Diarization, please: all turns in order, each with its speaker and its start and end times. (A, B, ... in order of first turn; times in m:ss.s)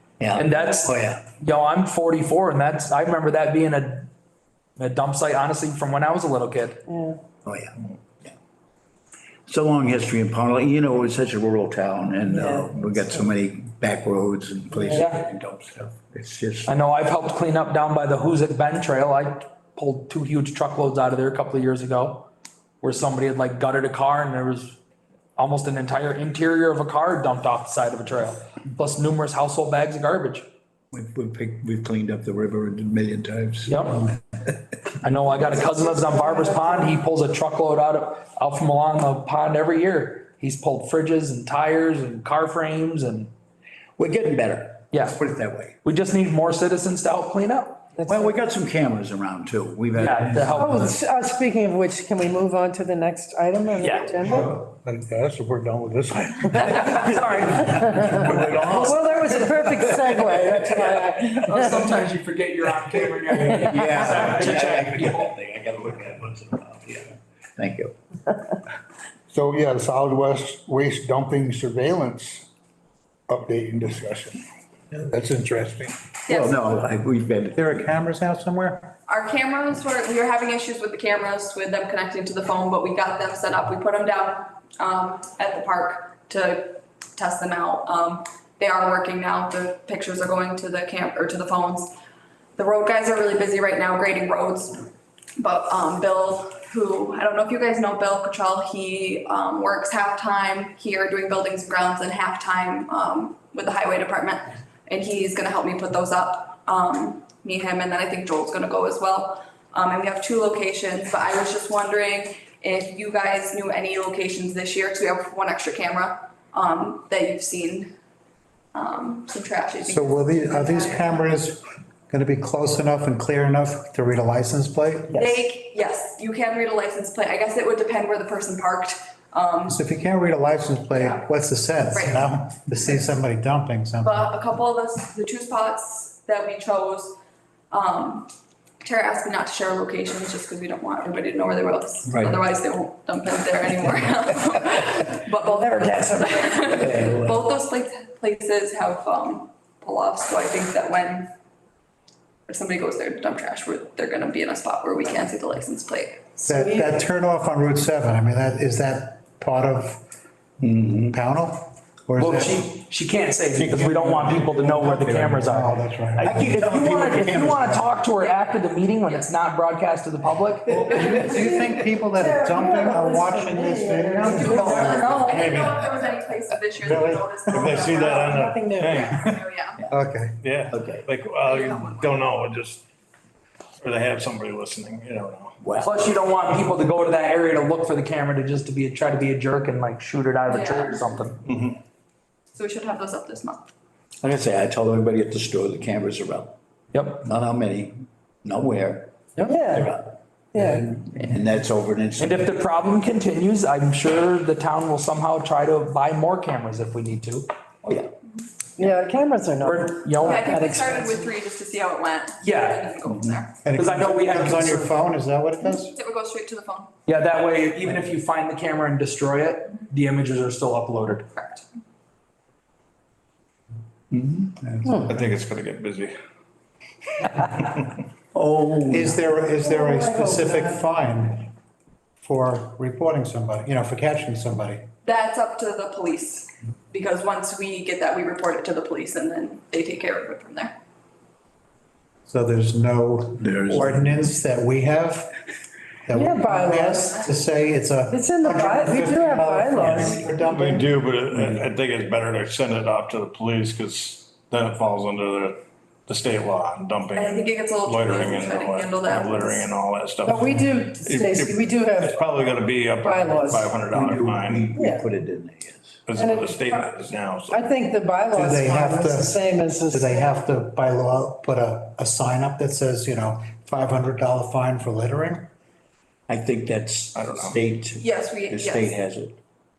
0:00.2-0:01.2 A
0:00.3-0:04.1 B
0:04.8-0:06.8 B
0:06.9-0:07.2 C
0:07.4-0:08.3 A
0:09.5-0:16.7 A
0:12.3-0:12.9 C
0:14.9-0:15.2 B
0:16.6-0:22.3 B
0:22.8-0:24.8 B
0:25.4-0:30.4 B
0:30.9-0:33.8 A
0:33.6-0:34.1 B
0:35.0-0:43.3 B
0:35.4-0:36.8 C
0:44.0-0:45.7 A
0:44.9-0:45.2 B
0:45.8-0:47.9 B
0:48.0-0:48.3 C
0:48.0-0:50.9 A
0:49.9-0:51.0 B
0:50.5-0:54.6 C
0:53.8-0:54.3 B
0:56.5-1:01.9 C
0:56.7-1:05.3 B
0:56.7-1:00.7 A
1:03.4-1:03.9 C
1:03.6-1:07.9 A
1:09.3-1:12.5 D
1:13.3-1:14.4 D
1:14.9-1:16.0 D
1:16.3-1:16.6 E
1:16.3-1:17.7 A
1:17.5-1:18.9 F
1:19.1-1:31.9 E
1:32.6-1:57.9 E
1:58.7-2:01.2 E
1:59.8-2:05.4 F
2:05.1-2:09.8 E
2:09.7-2:14.3 F
2:11.0-2:11.2 E
2:11.9-2:12.3 E
2:14.0-2:17.2 E
2:17.7-2:31.3 E
2:22.0-2:22.4 A
2:25.4-2:26.9 C
2:26.7-2:27.4 A
2:32.5-2:36.4 E
2:36.4-2:37.0 C
2:36.4-2:40.0 F
2:40.6-2:41.2 A
2:41.1-2:42.7 F
2:42.2-2:50.9 B
2:43.6-2:43.8 A
2:43.6-2:46.5 F
2:46.2-2:47.9 A
2:50.7-2:56.1 F
2:51.2-2:55.2 C
2:54.2-2:58.5 E
2:56.8-2:57.8 F
2:57.5-2:59.4 G
2:58.0-2:59.3 C
2:59.1-2:59.8 E
2:59.9-3:00.4 F
3:00.4-3:02.8 G
3:00.7-3:01.0 A
3:01.5-3:02.1 E
3:03.8-3:05.5 G
3:05.6-3:06.0 A
3:05.8-3:11.4 B
3:10.5-3:11.0 E
3:11.4-3:11.8 G
3:12.5-3:13.6 E
3:14.2-3:16.5 A
3:16.9-3:17.2 B
3:17.2-3:22.5 A
3:19.4-3:19.9 C
3:20.5-3:20.9 C
3:22.2-3:27.5 B
3:27.8-3:28.1 A
3:28.8-3:31.3 C
3:29.6-3:30.6 B
3:30.2-3:33.6 E
3:32.4-3:32.9 B
3:33.0-3:33.4 A
3:33.6-3:35.9 F
3:33.7-3:34.9 B
3:35.6-3:36.9 E
3:37.0-3:41.2 B
3:41.3-3:41.6 E
3:44.1-3:44.7 A
3:45.0-3:46.1 G
3:48.3-3:49.2 A
3:48.9-3:51.5 F
3:49.6-3:50.8 C
3:52.2-3:54.9 F
3:55.0-4:00.7 E
4:02.3-4:05.3 F
4:03.4-4:04.1 A
4:06.1-4:10.9 F
4:06.1-4:07.2 C
4:08.1-4:10.5 C
4:10.4-4:24.7 G
4:11.3-4:11.6 A
4:17.1-4:19.7 E
4:20.2-4:22.2 C
4:23.0-4:23.8 C
4:23.9-4:26.0 A
4:24.7-4:25.1 C
4:26.0-4:27.7 G
4:26.1-4:30.4 C
4:28.3-4:29.4 F
4:29.9-4:35.5 F
4:36.3-4:39.4 A
4:37.1-4:37.6 G
4:38.0-4:38.9 E